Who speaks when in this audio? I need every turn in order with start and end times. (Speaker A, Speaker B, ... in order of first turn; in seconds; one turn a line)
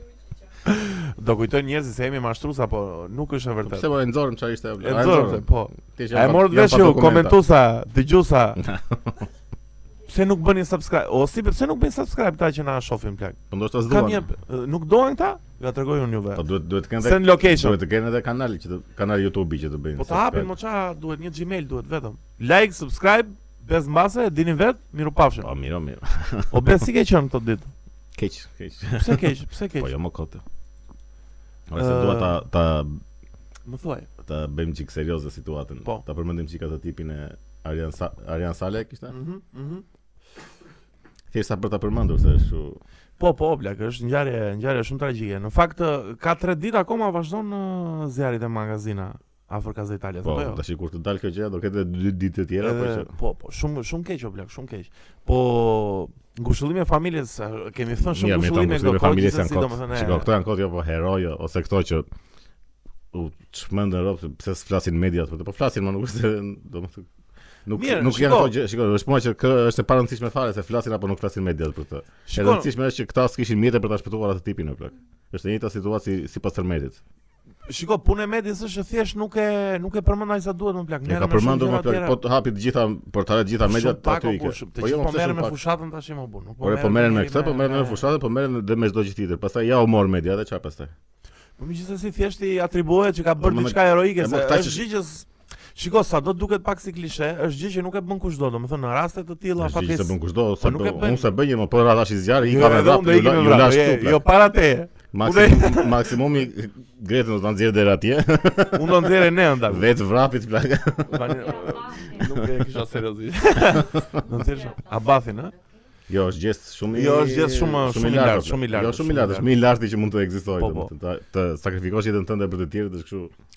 Speaker A: 0.6-3.9
Speaker B: 3.6-7.4
Speaker A: 4.8-8.6
Speaker B: 8.6-9.2
Speaker A: 10.1-16.5
Speaker B: 13.5-14.2
Speaker B: 16.3-20.5
Speaker A: 17.0-17.8
Speaker A: 19.9-25.5
Speaker B: 25.4-26.8
Speaker A: 26.5-27.7
Speaker B: 28.1-30.4
Speaker A: 29.0-29.9
Speaker B: 31.7-33.0
Speaker A: 31.8-32.4
Speaker A: 33.6-34.1
Speaker B: 34.2-39.1
Speaker A: 39.1-39.8
Speaker B: 41.3-42.8
Speaker A: 43.2-50.6
Speaker B: 50.2-53.1
Speaker A: 52.6-60.3
Speaker B: 58.1-62.1
Speaker B: 63.1-67.1
Speaker B: 67.7-77.0
Speaker A: 67.7-68.5
Speaker A: 72.3-72.7
Speaker A: 77.7-82.2
Speaker B: 81.0-85.5
Speaker A: 83.6-88.0
Speaker B: 86.6-90.9
Speaker A: 91.6-101.3
Speaker B: 93.4-94.8
Speaker B: 99.6-104.3
Speaker A: 102.4-106.1
Speaker B: 105.1-111.6
Speaker A: 108.7-109.9
Speaker A: 111.1-115.5
Speaker B: 116.1-123.3
Speaker A: 116.9-119.5
Speaker A: 120.6-120.9